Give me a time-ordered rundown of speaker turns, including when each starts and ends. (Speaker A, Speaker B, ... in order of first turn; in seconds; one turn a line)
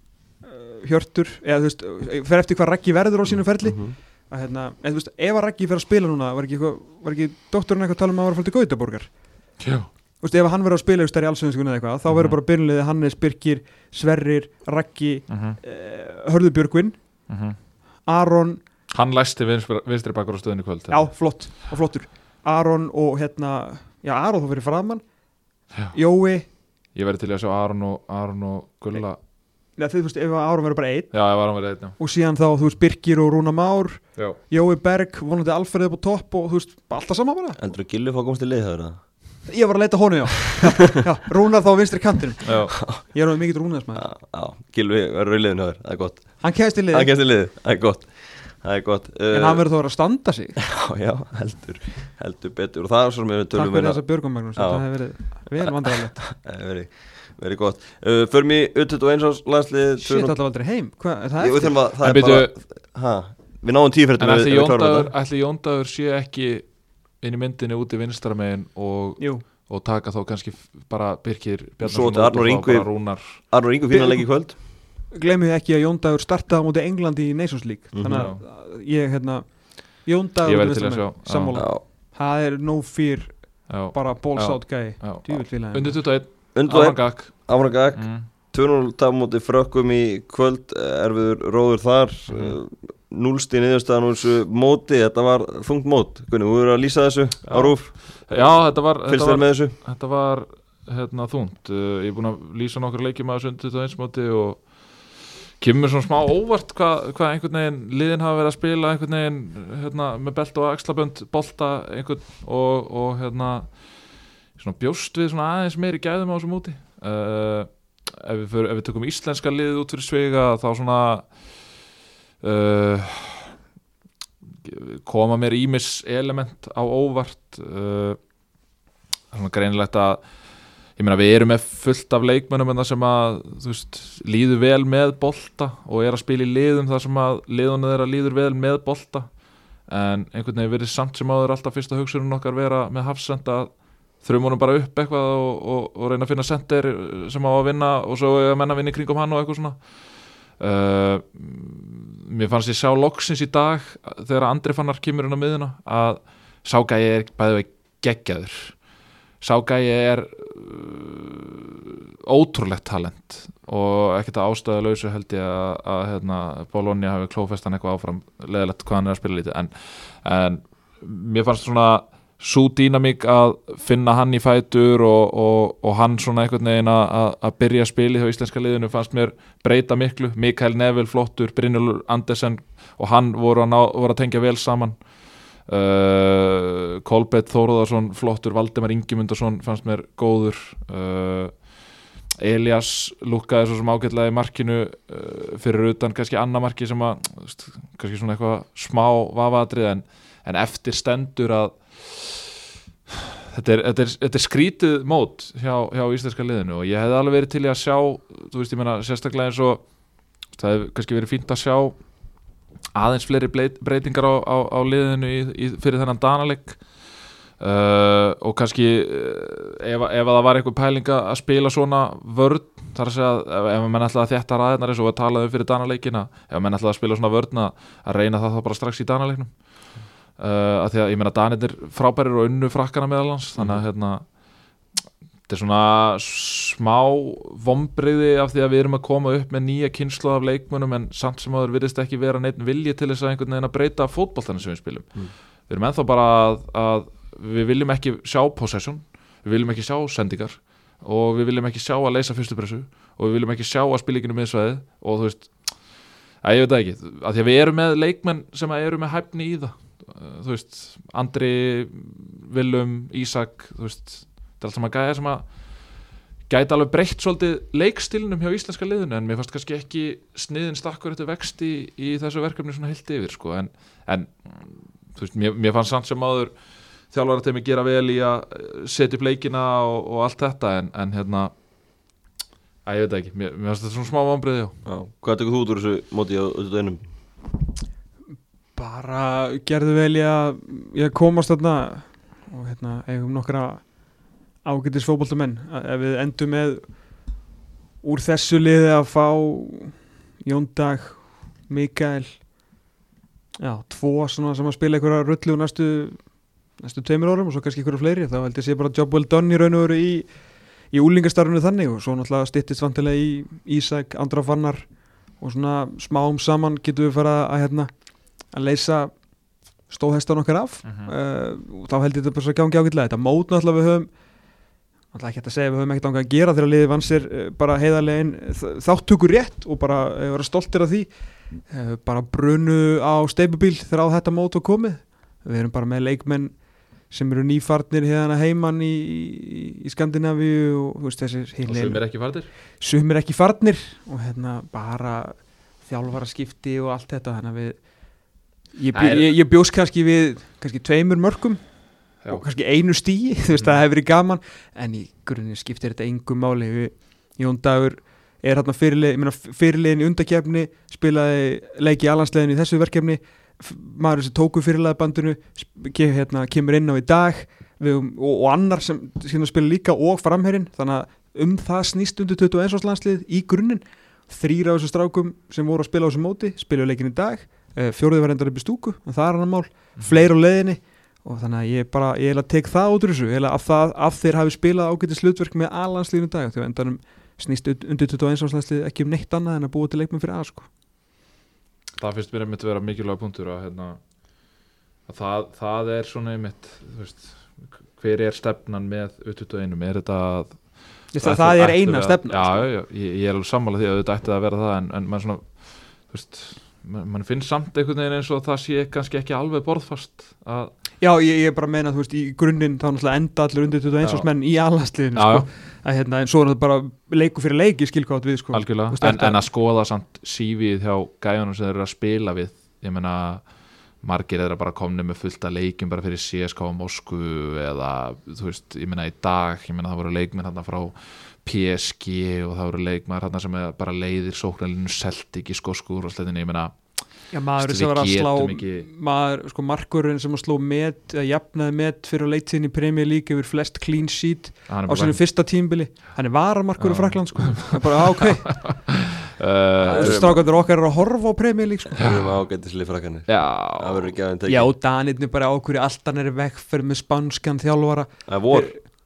Speaker A: 0.5-9.1
Speaker B: 3.3-4.0
Speaker C: 9.6-9.9
Speaker A: 10.2-17.0
Speaker C: 12.1-12.4
Speaker C: 15.3-15.6
Speaker C: 17.3-17.6
Speaker A: 18.1-18.6
Speaker C: 18.9-21.1
Speaker A: 20.9-25.1
Speaker A: 25.9-26.5
Speaker C: 26.9-29.2
Speaker A: 29.7-31.3
Speaker C: 31.1-32.0
Speaker A: 32.0-37.6
Speaker B: 37.6-39.4
Speaker A: 39.5-44.1
Speaker C: 42.5-42.8
Speaker B: 44.0-49.6
Speaker A: 46.4-47.1
Speaker A: 49.3-50.6
Speaker B: 50.7-60.4
Speaker A: 53.5-56.2
Speaker A: 60.0-61.8
Speaker B: 61.4-65.1
Speaker C: 62.0-62.5
Speaker C: 64.2-73.4
Speaker A: 69.2-69.5
Speaker B: 71.8-74.6
Speaker A: 73.9-74.6
Speaker A: 75.1-86.0
Speaker B: 77.9-78.3
Speaker C: 78.1-78.4
Speaker C: 80.5-81.6
Speaker B: 81.5-81.8
Speaker C: 83.7-88.3
Speaker B: 86.5-99.8
Speaker C: 92.3-92.6
Speaker C: 97.5-121.7
Speaker C: 122.4-123.5
Speaker C: 124.6-128.2
Speaker C: 129.3-130.3
Speaker C: 130.9-158.8
Speaker C: 159.4-191.9
Speaker C: 192.4-202.6
Speaker C: 203.1-209.9
Speaker C: 210.4-212.4
Speaker C: 212.9-234.3
Speaker B: 233.6-233.8
Speaker C: 235.5-265.9
Speaker C: 266.5-281.5
Speaker C: 282.9-284.8
Speaker B: 284.9-287.0
Speaker A: 288.8-293.9
Speaker A: 294.6-296.9
Speaker A: 298.0-302.4
Speaker A: 303.6-306.2
Speaker A: 306.8-310.4
Speaker A: 310.9-319.2
Speaker A: 319.9-324.1
Speaker C: 320.8-321.1
Speaker A: 325.1-331.1
Speaker A: 331.7-348.2
Speaker C: 341.6-342.5
Speaker A: 348.7-390.7
Speaker C: 348.9-349.4
Speaker C: 353.5-353.8
Speaker C: 380.0-380.2
Speaker C: 392.0-394.0
Speaker C: 395.1-410.8
Speaker A: 401.1-402.7
Speaker A: 411.0-419.4
Speaker C: 414.0-414.3
Speaker C: 414.9-415.5
Speaker C: 418.5-438.9
Speaker A: 437.3-448.6
Speaker C: 444.7-445.2
Speaker C: 446.8-450.3
Speaker B: 449.8-450.5
Speaker A: 449.9-452.1
Speaker B: 451.9-454.7
Speaker C: 452.0-452.4
Speaker C: 453.3-454.1
Speaker A: 454.5-458.9
Speaker B: 458.3-458.9